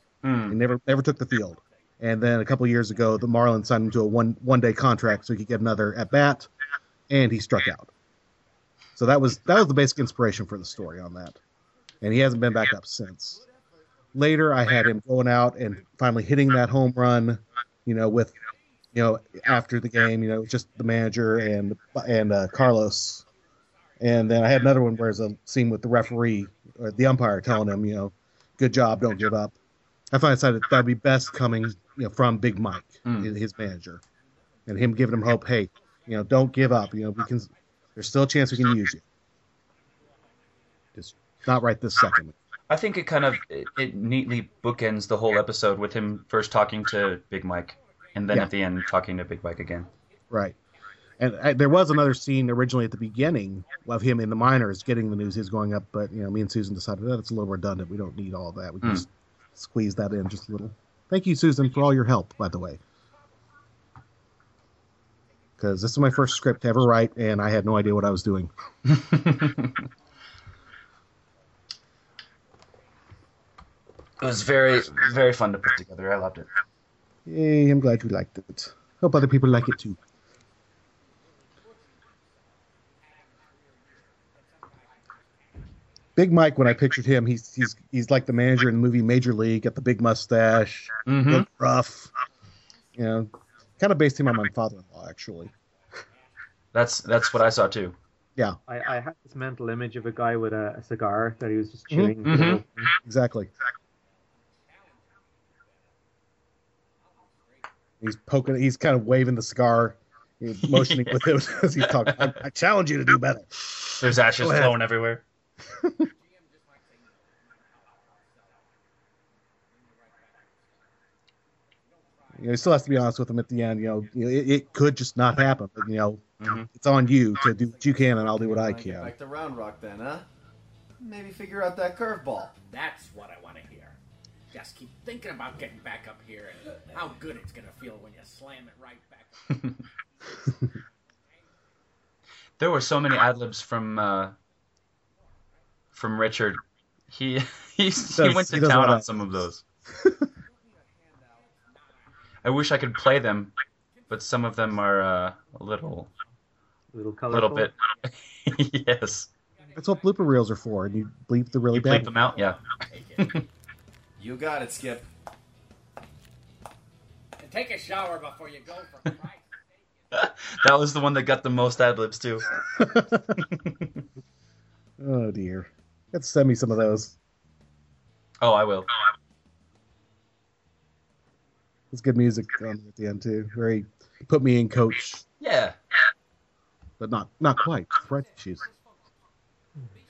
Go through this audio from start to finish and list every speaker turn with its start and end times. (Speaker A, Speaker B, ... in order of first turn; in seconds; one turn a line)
Speaker A: 0.2-0.6
Speaker B: 0.5-6.5
Speaker B: 7.1-7.9
Speaker B: 9.0-11.4
Speaker B: 12.0-13.4
Speaker B: 14.2-18.4
Speaker B: 18.9-23.3
Speaker B: 24.0-29.6
Speaker B: 30.1-34.0
Speaker A: 33.0-33.3
Speaker B: 34.7-39.0
Speaker B: 41.0-42.4
Speaker A: 42.7-49.9
Speaker B: 50.3-50.6
Speaker B: 51.2-62.8
Speaker B: 65.6-68.5
Speaker A: 68.9-69.8
Speaker A: 74.2-76.5
Speaker B: 77.3-80.0
Speaker B: 86.2-92.1
Speaker A: 91.1-91.5
Speaker B: 93.0-95.5
Speaker A: 96.7-98.0
Speaker C: 98.7-102.9
Speaker B: 101.9-102.2
Speaker A: 102.2-102.6
Speaker B: 103.0-103.5
Speaker D: 104.6-105.2
Speaker D: 107.0-107.7
Speaker B: 108.0-114.8
Speaker A: 110.6-112.4
Speaker A: 114.0-115.2
Speaker B: 115.8-116.1
Speaker D: 116.1-118.7
Speaker D: 119.7-120.6
Speaker B: 122.4-129.1
Speaker A: 126.4-126.7
Speaker E: 128.4-130.3
Speaker E: 131.0-132.6
Speaker D: 132.7-134.0
Speaker D: 134.5-139.8
Speaker A: 142.6-144.4
Speaker A: 145.9-149.6
Speaker B: 148.2-149.2
Speaker B: 149.9-150.3
Speaker A: 152.4-153.5
Speaker A: 154.1-156.1
Speaker C: 156.9-157.7
Speaker A: 157.3-159.3
Speaker B: 159.8-162.1
Speaker A: 161.7-162.6
Speaker D: 162.2-163.3
Speaker E: 164.2-165.1
Speaker D: 167.4-169.6
Speaker A: 170.1-172.6
Speaker B: 172.8-173.3
Speaker A: 173.4-173.9
Speaker B: 175.0-177.2
Speaker A: 178.4-178.9
Speaker B: 181.9-185.2
Speaker A: 185.4-185.8
Speaker B: 187.0-188.7